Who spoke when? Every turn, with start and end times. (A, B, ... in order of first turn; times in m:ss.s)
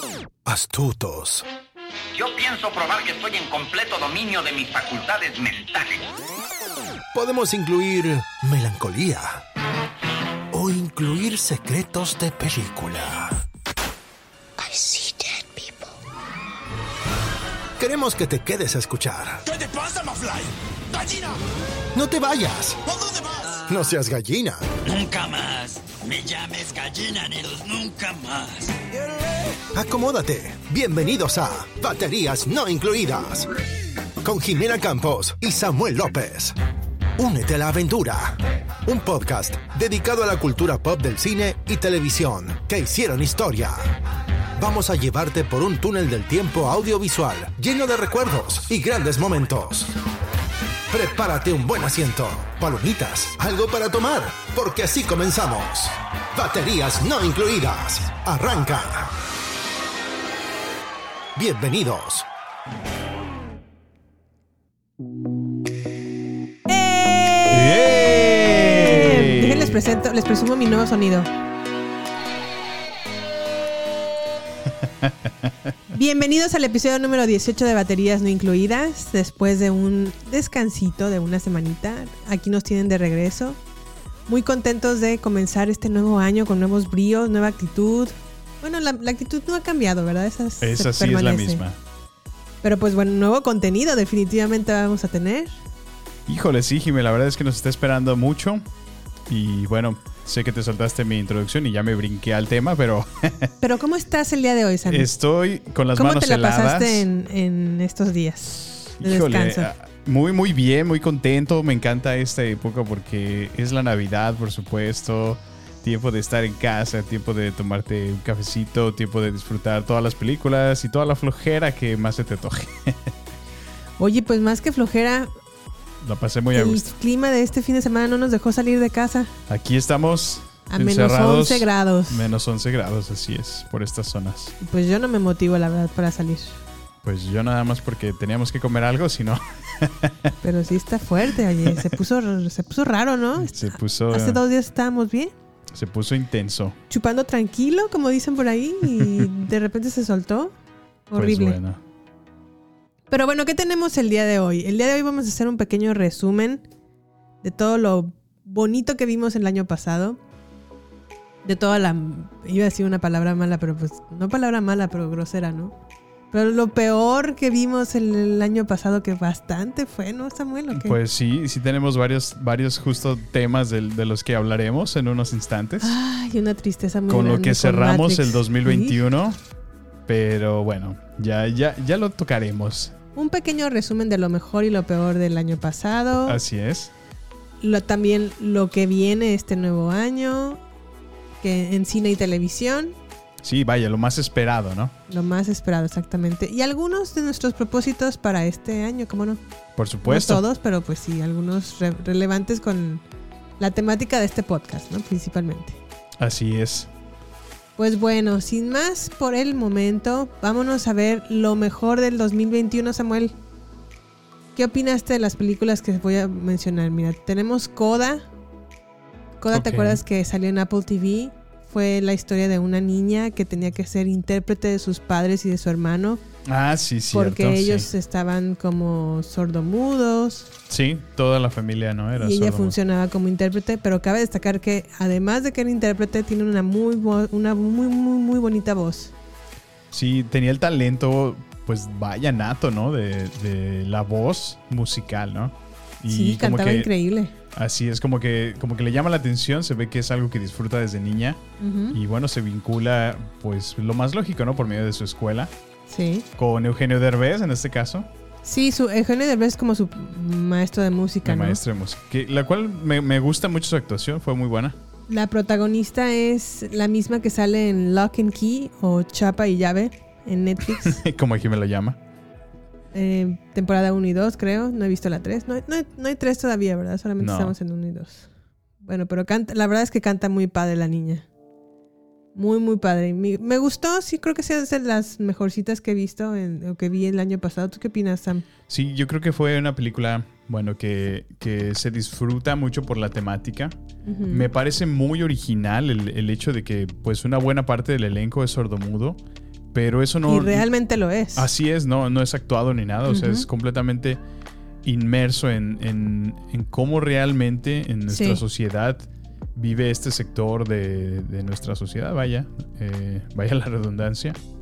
0:00.4-0:01.4 A
0:02.1-0:06.0 B
0:07.1-0:09.4 A
0:10.5-0:13.4 A
0:14.6-0:15.8 A
0:17.8-0:19.4 A
0:19.4-0:21.4 C
0:21.9-0:22.8 A
0:22.8-0:23.6 C
0:23.7-0:24.7 A
0:24.8-0:28.8 C
0:29.7-0:33.5 A
0:34.2-0:36.6 A
0:37.2-0:43.9 A
0:44.6-0:49.9 A
0:50.9-0:59.1 A
1:01.4-1:02.3 A
1:06.7-1:11.3 D
1:07.5-1:09.8 E
1:14.8-1:15.7 E
1:15.9-1:23.6 D
1:24.3-1:31.6 D
1:30.6-1:31.8 E
1:32.6-1:35.5 D
1:36.3-1:38.6 E
1:39.3-1:43.5 E
1:43.6-1:45.1 D
1:44.9-1:47.1 E
1:45.9-1:49.7 D
1:49.0-2:03.1 E
2:04.0-2:05.3 D
2:06.0-2:06.9 E
2:06.5-2:09.3 D
2:09.5-2:14.5 E
2:10.7-2:12.3 D
2:14.6-2:16.6 D
2:17.0-2:20.3 E
2:20.4-2:25.3 D
2:21.6-2:21.9 E
2:23.4-2:24.4 E
2:25.7-2:26.8 E
2:26.9-2:30.5 D
2:29.0-2:29.3 E
2:31.1-2:31.6 D
2:31.1-2:31.8 E
2:33.1-2:36.6 D
2:37.4-2:40.2 D
2:41.4-2:45.7 D
2:46.3-2:51.0 D
2:50.7-2:56.0 E
2:55.8-2:59.0 D
2:57.1-2:59.4 E
3:00.1-3:02.9 E
3:03.2-3:06.4 D
3:06.2-3:06.9 E
3:07.6-3:10.6 D
3:11.4-3:13.0 D
3:13.4-3:14.9 E
3:15.1-3:19.4 D
3:19.8-3:20.4 E
3:20.0-3:23.0 D
3:23.6-3:25.8 D
3:26.2-3:26.9 E
3:27.8-3:33.3 D
3:34.6-3:38.2 D
3:39.4-3:46.2 D
3:39.5-3:40.0 E
3:46.4-3:47.9 E
3:47.1-3:50.5 D
3:50.7-3:52.8 E
3:52.2-3:59.1 D
3:59.9-4:06.9 E
4:06.1-4:07.3 D
4:07.5-4:15.5 E
4:11.6-4:12.0 D
4:15.9-4:16.2 D
4:16.4-4:18.1 E
4:18.4-4:21.6 D
4:21.2-4:24.8 E
4:25.1-4:31.0 D
4:30.6-4:32.0 E
4:32.9-4:38.3 D
4:37.2-4:37.6 E
4:38.8-4:41.2 D
4:42.3-4:48.4 D
4:48.7-4:53.8 E
4:54.0-4:54.5 D
4:54.3-4:59.2 E
4:59.7-5:00.7 E
5:00.2-5:01.5 D
5:01.4-5:04.2 E
5:03.1-5:03.5 D
5:04.8-5:14.4 E
5:08.1-5:08.4 D